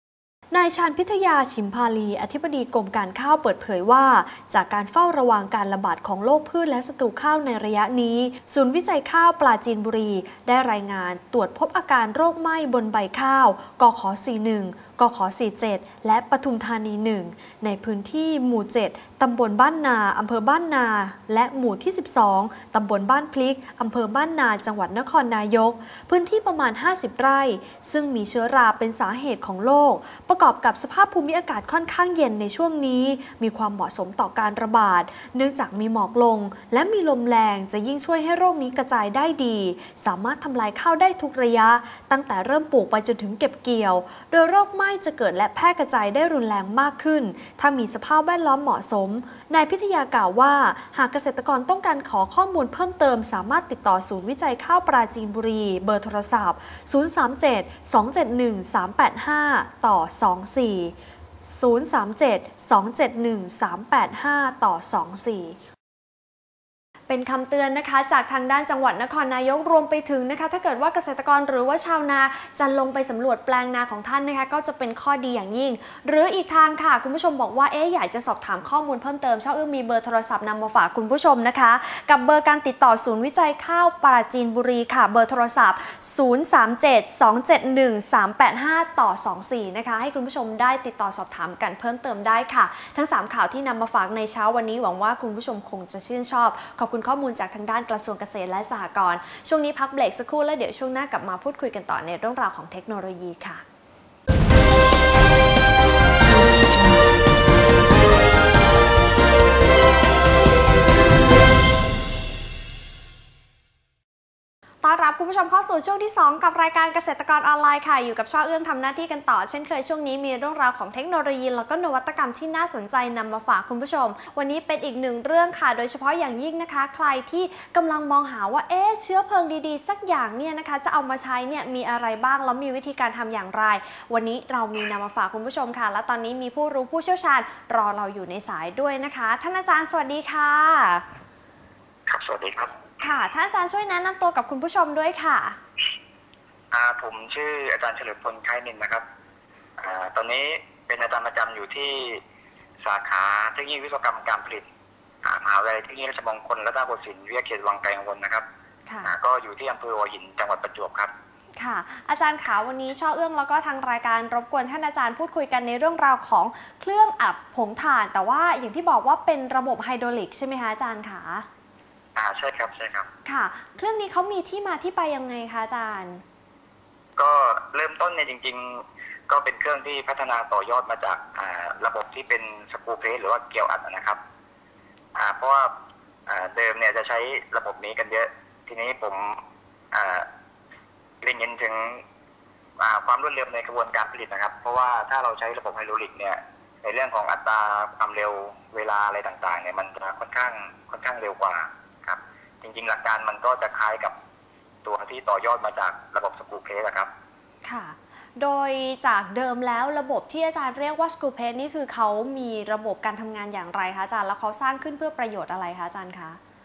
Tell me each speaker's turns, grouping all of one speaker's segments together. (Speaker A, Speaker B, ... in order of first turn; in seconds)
Speaker A: 0.5-65.6
Speaker B: 67.1-103.6, 114.8-141.1, 143.0-145.6, 158.9-159.1, 161.6-171.4, 173.2-176.2, 207.6-216.4
Speaker C: 142.1-142.8, 146.7-149.1, 149.8-152.2, 152.8-154.7, 155.2-158.4, 159.0-161.1, 172.2-173.1, 177.2-184.2, 185.1-185.7, 186.3-190.3, 191.2-192.1, 192.8-204.2, 204.8-207.1